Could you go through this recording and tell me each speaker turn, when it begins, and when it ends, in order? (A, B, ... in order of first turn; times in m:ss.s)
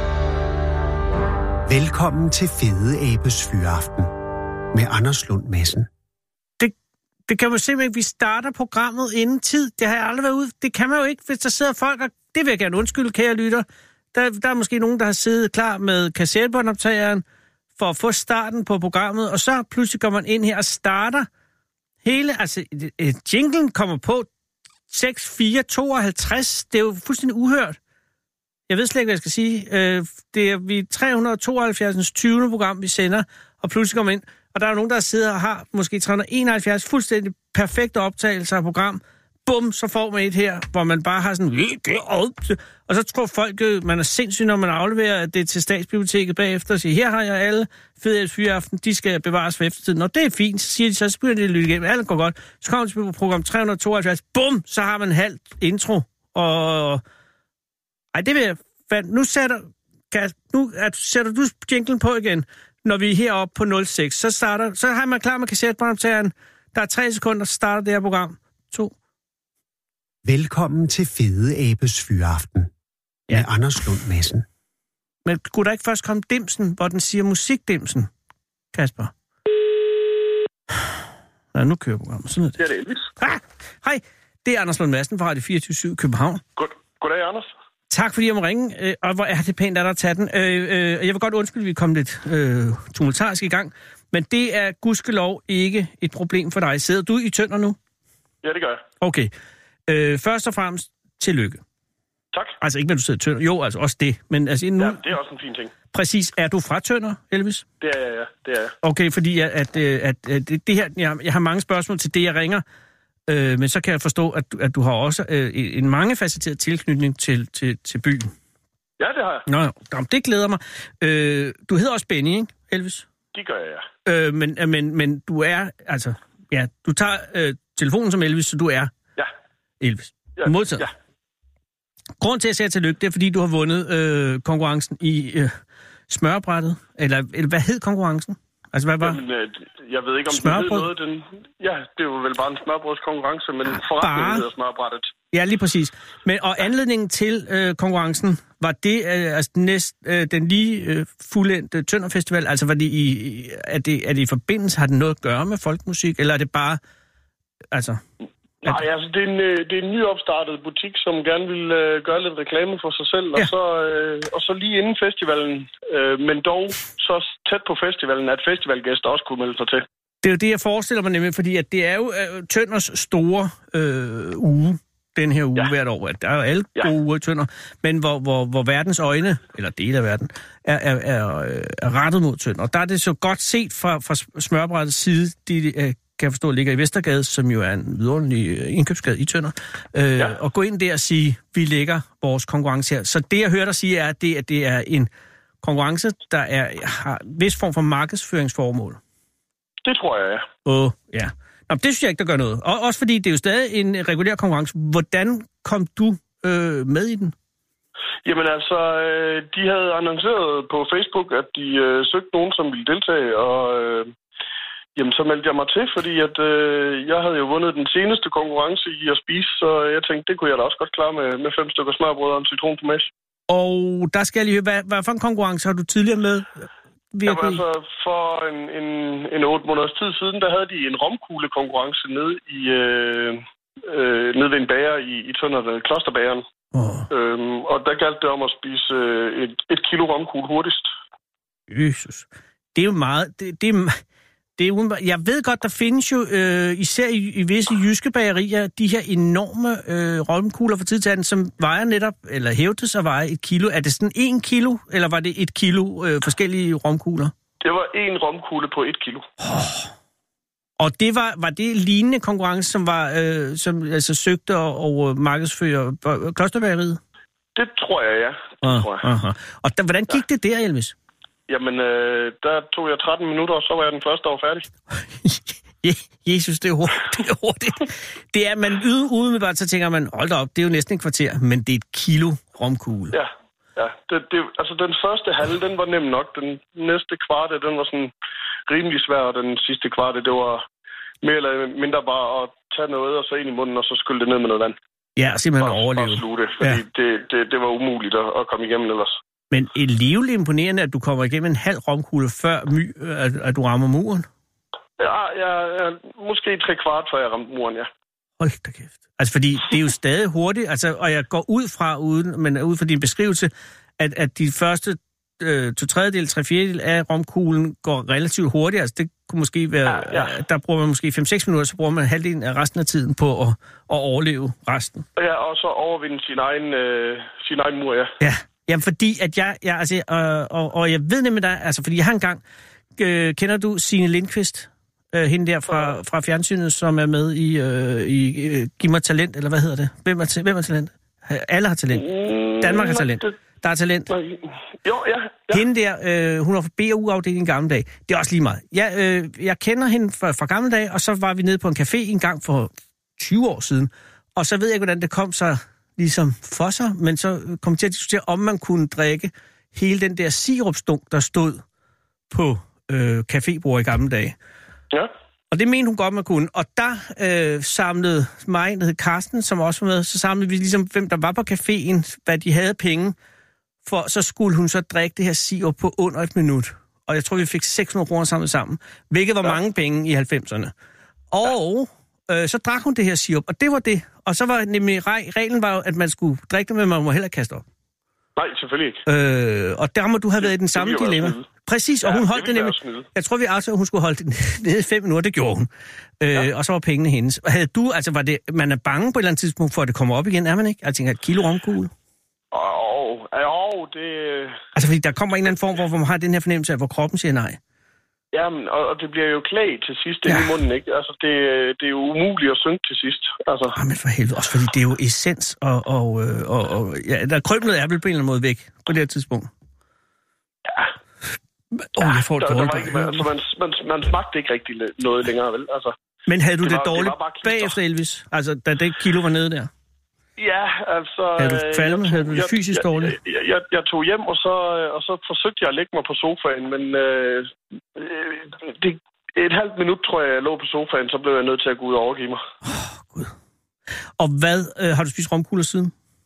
0:01.7-0:04.1 A
0:04.7-0:05.9 A
0:07.3-0:17.2 B
0:17.8-0:21.3 B
0:22.0-0:24.3 B
0:24.9-0:27.8 B
0:28.7-0:57.0 B
0:58.1-1:08.9 B
1:10.2-1:12.7 A
1:13.3-1:14.4 A
1:15.2-1:18.1 B
1:18.7-1:19.1 B
1:21.5-1:22.6 B
1:22.6-1:23.0 C
1:23.2-1:26.4 B
1:26.6-1:27.5 C
1:27.9-1:37.8 B
1:38.4-1:38.8 C
1:39.0-1:39.3 B
1:39.9-1:41.6 B
1:42.6-1:45.1 B
1:44.8-1:45.7 C
1:45.9-1:47.6 B
1:47.8-1:48.8 C
1:48.8-1:52.6 B
1:53.3-1:58.3 B
1:59.0-1:59.4 C
1:59.5-2:03.1 B
2:03.3-2:03.9 C
2:04.1-2:08.9 B
2:09.8-2:10.9 B
2:10.4-2:10.9 C
2:12.2-2:15.6 B
2:16.1-2:19.2 B
2:19.0-2:25.1 C
2:20.3-2:20.9 B
2:24.0-2:24.5 B
2:25.3-2:36.8 B
2:37.7-2:38.0 B
2:38.6-2:49.8 C
2:50.2-3:15.1 B
3:15.6-3:19.0 B
3:19.8-3:20.5 C
3:20.7-3:27.4 B
3:28.2-3:34.1 C
3:35.0-3:43.1 C
3:43.5-3:47.6 B
3:47.3-3:56.4 C
3:56.7-3:57.1 B
3:57.1-4:00.9 C
4:01.7-4:04.0 B
4:04.6-4:17.3 B
4:17.6-4:19.3 C
4:19.4-4:19.9 B
4:20.8-4:27.0 B
4:27.6-4:29.1 C
4:28.6-4:30.9 B
4:31.5-4:34.7 C
4:34.9-4:43.2 B
4:43.1-4:48.1 C
4:48.7-4:50.6 C
4:51.2-4:54.8 C
4:55.2-4:56.8 B
4:55.6-4:59.2 C
4:59.5-5:04.3 B
5:05.0-5:07.9 C
5:08.4-5:25.1 B
5:19.9-5:20.3 C
5:25.2-5:28.1 C
5:28.2-5:32.4 B
5:33.0-5:44.1 B
5:41.9-5:43.3 C
5:44.1-5:45.6 C
5:45.5-6:01.6 B
6:02.3-6:04.4 B
6:05.5-6:13.2 B
6:13.8-6:20.7 B
6:21.3-6:27.6 B
6:28.4-6:29.0 C
6:29.1-6:41.9 B
6:30.6-6:31.5 C
6:32.0-6:33.1 C
6:42.5-6:44.6 C
6:44.8-6:47.6 B
6:48.3-6:53.8 C
6:50.3-6:50.6 B
6:53.8-6:59.5 B
7:00.7-7:00.9 C
7:01.7-7:03.3 B
7:02.0-7:05.9 C
7:06.3-7:09.7 B
7:06.6-7:07.8 C
7:10.4-7:22.4 C
7:11.4-7:13.2 B
7:22.6-7:23.3 B
7:24.2-7:25.9 B